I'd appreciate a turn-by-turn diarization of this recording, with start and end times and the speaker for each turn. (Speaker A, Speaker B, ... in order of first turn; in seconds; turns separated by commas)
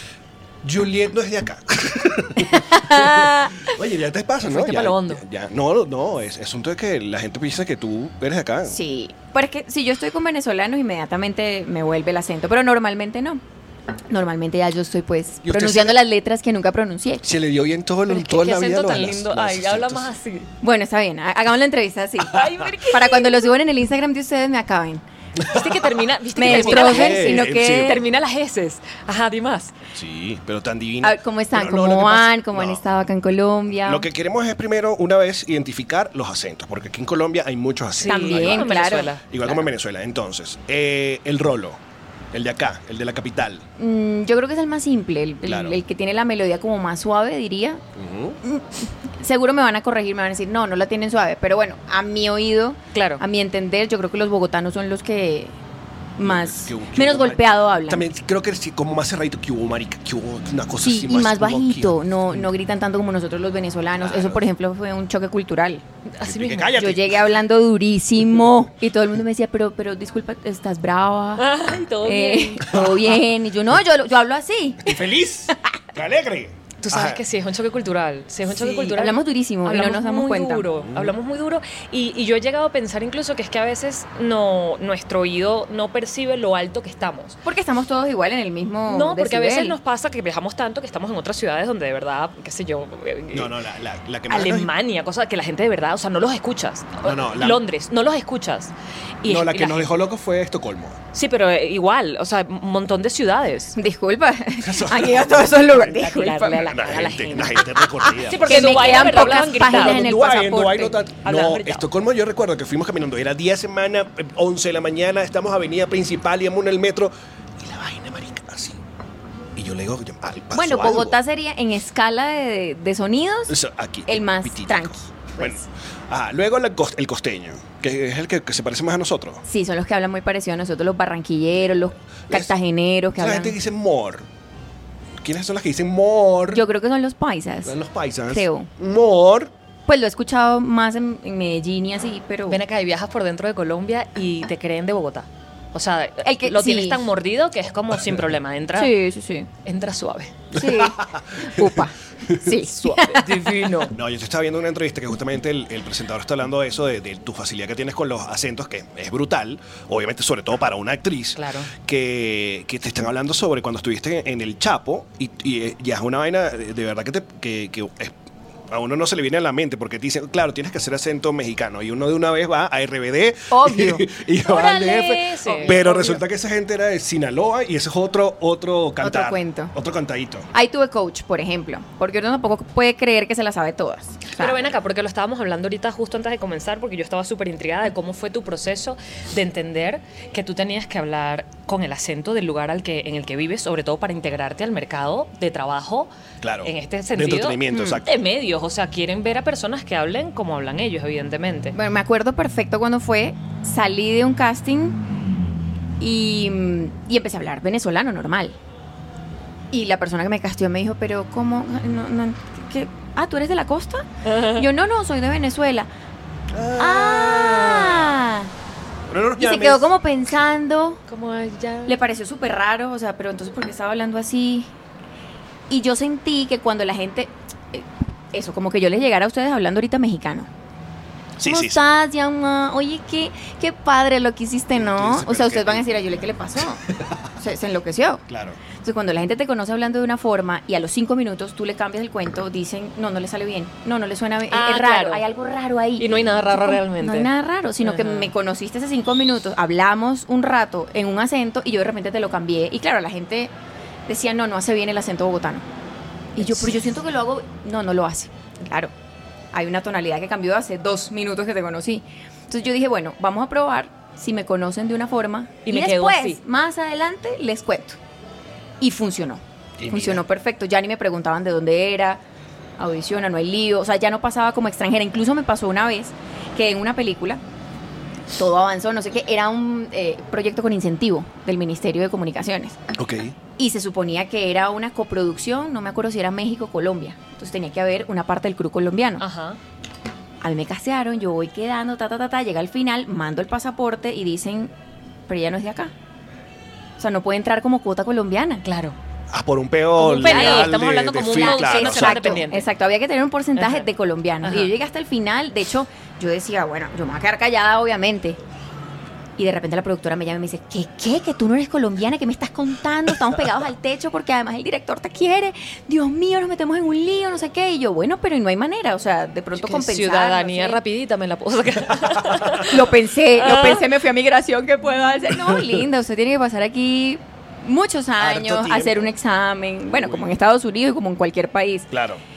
Speaker A: 0.6-8.8, Speaker B: 2.5-3.5, Speaker C: 4.5-5.2, Speaker B: 8.7-13.4, Speaker B: 14.1-17.2, Speaker A: 15.4-16.0, Speaker A: 17.2-20.1, Speaker C: 18.1-20.5, Speaker B: 20.6-25.0, Speaker C: 22.3-23.5, Speaker A: 25.4-28.0, Speaker C: 25.5-29.7, Speaker B: 26.4-28.0, Speaker A: 29.9-32.8, Speaker B: 31.0-34.1, Speaker A: 33.8-41.8, Speaker C: 38.0-39.7, Speaker B: 38.0-39.1, Speaker A: 42.3-43.7, Speaker B: 43.8-47.8, Speaker A: 45.4-45.8, Speaker A: 48.0-48.4, Speaker B: 48.4-55.5, Speaker C: 52.9-53.2, Speaker B: 56.2-58.0, Speaker A: 56.2-62.5, Speaker B: 60.8-65.8, Speaker A: 64.0-64.5, Speaker C: 66.1-66.8, Speaker A: 66.2-67.3, Speaker B: 66.8-71.5, Speaker C: 71.4-72.8, Speaker B: 72.0-75.0, Speaker A: 72.7-73.2, Speaker A: 74.8-77.2, Speaker C: 76.8-87.4, Speaker B: 78.6-80.7, Speaker A: 80.9-81.2, Speaker B: 87.5-89.8, Speaker C: 88.9-93.5, Speaker A: 93.3-94.7, Speaker C: 94.3-99.9, Speaker A: 97.0-97.6, Speaker A: 99.2-101.0, Speaker C: 101.1-103.8, Speaker B: 103.8-106.8, Speaker A: 104.6-106.0, Speaker C: 105.8-107.7, Speaker A: 106.6-118.8, Speaker B: 108.0-111.0, Speaker C: 108.3-110.1, Speaker C: 111.2-111.9, Speaker A: 119.5-121.2, Speaker B: 120.5-123.6, Speaker A: 123.5-129.4, Speaker B: 124.1-125.6, Speaker B: 129.5-133.6, Speaker A: 133.2-134.3, Speaker A: 135.2-136.6, Speaker B: 136.5-137.8, Speaker A: 137.6-139.5, Speaker B: 138.3-138.7, Speaker B: 139.9-142.6, Speaker C: 142.5-148.9, Speaker B: 146.2-147.0, Speaker B: 148.7-149.5, Speaker C: 149.7-150.3, Speaker A: 150.5-168.2, Speaker B: 150.5-153.2, Speaker C: 153.2-153.9, Speaker C: 161.4-161.7, Speaker A: 168.7-180.5, Speaker B: 173.5-174.1, Speaker C: 174.5-176.2, Speaker B: 175.5-175.8, Speaker B: 179.0-179.7, Speaker B: 180.5-184.6, Speaker C: 184.4-196.1, Speaker A: 196.4-198.1, Speaker C: 196.6-201.8, Speaker B: 197.7-198.0, Speaker B: 201.7-205.0, Speaker B: 206.0-208.6, Speaker B: 209.7-215.9, Speaker C: 214.2-214.7, Speaker A: 216.5-218.2, Speaker B: 216.8-218.5, Speaker A: 219.1-219.9, Speaker B: 219.4-221.0, Speaker C: 221.1-222.0, Speaker B: 221.9-224.7, Speaker B: 225.7-230.5, Speaker A: 231.4-231.8, Speaker B: 231.4-236.8, Speaker A: 234.8-235.9, Speaker A: 236.9-237.3, Speaker B: 237.4-238.2, Speaker A: 238.3-238.6, Speaker B: 238.8-253.5, Speaker C: 244.5-245.2, Speaker C: 246.0-247.3, Speaker C: 247.8-248.3, Speaker B: 254.1-255.7, Speaker B: 256.4-258.9, Speaker C: 256.4-256.9, Speaker B: 259.5-268.0, Speaker C: 265.6-266.4, Speaker B: 268.8-272.2, Speaker A: 269.8-270.2, Speaker B: 272.8-277.4, Speaker B: 278.4-282.8, Speaker A: 282.9-283.4, Speaker B: 283.6-289.2, Speaker C: 289.2-289.6, Speaker B: 290.4-294.7, Speaker B: 295.3-295.9, Speaker B: 297.0-298.6, Speaker C: 298.6-299.0, Speaker A: 299.3-302.4, Speaker C: 300.0-302.7, Speaker B: 300.2-308.4, Speaker C: 303.6-303.9, Speaker C: 304.4-304.7, Speaker B: 309.4-320.8, Speaker C: 319.5-322.8, Speaker B: 322.7-331.9, Speaker C: 323.4-323.9, Speaker A: 325.4-325.8, Speaker A: 328.2-329.1, Speaker A: 329.9-330.3, Speaker A: 331.9-332.2